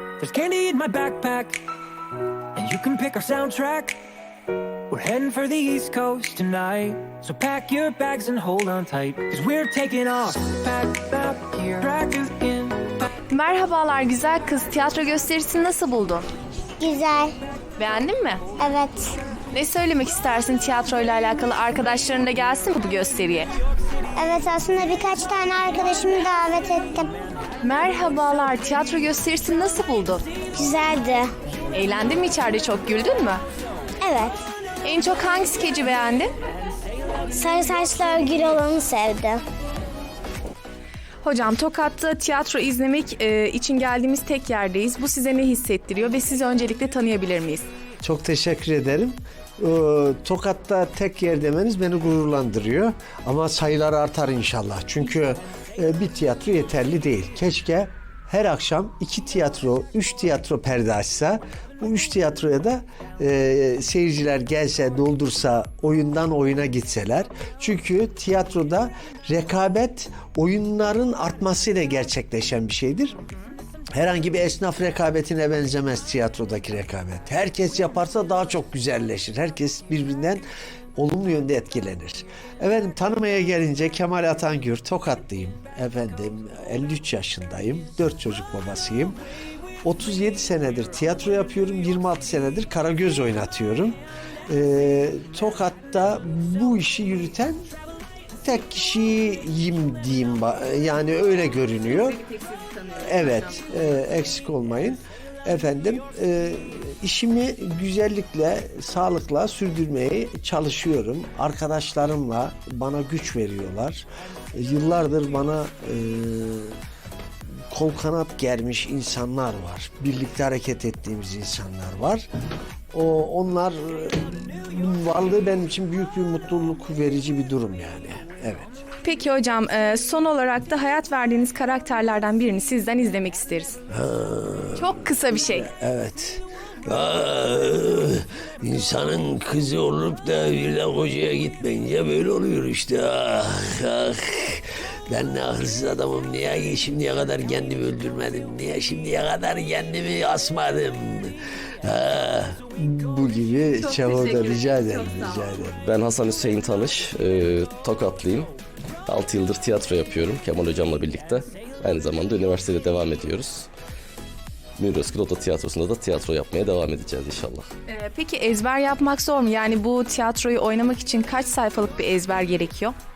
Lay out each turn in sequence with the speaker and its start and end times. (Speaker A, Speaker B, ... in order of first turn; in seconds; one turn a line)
Speaker A: 0.2-1.6
Speaker A: 2.5-4.0
Speaker A: 4.9-13.1
Speaker B: 13.3-16.3
Speaker C: 16.8-17.4
Speaker B: 17.8-18.4
Speaker C: 18.6-19.1
Speaker B: 19.5-23.5
Speaker C: 24.1-27.1
Speaker B: 27.6-30.2
Speaker C: 30.5-31.3
Speaker B: 31.7-33.4
Speaker C: 34.0-34.4
Speaker B: 34.8-36.3
Speaker C: 37.3-39.4
Speaker B: 41.2-47.6
Speaker D: 48.0-73.2
Speaker D: 73.9-80.4
Speaker D: 81.0-89.2
Speaker D: 89.8-97.6
Speaker D: 98.4-102.4
Speaker D: 103.0-116.8
Speaker D: 117.7-122.3
Speaker D: 122.9-128.7
Speaker B: 129.0-133.8
Speaker D: 133.9-151.3
Speaker B: 134.8-135.7
Speaker D: 151.8-155.8
Speaker E: 155.8-158.5
Speaker E: 159.1-163.7
Speaker E: 164.8-167.7
Speaker B: 167.9-172.9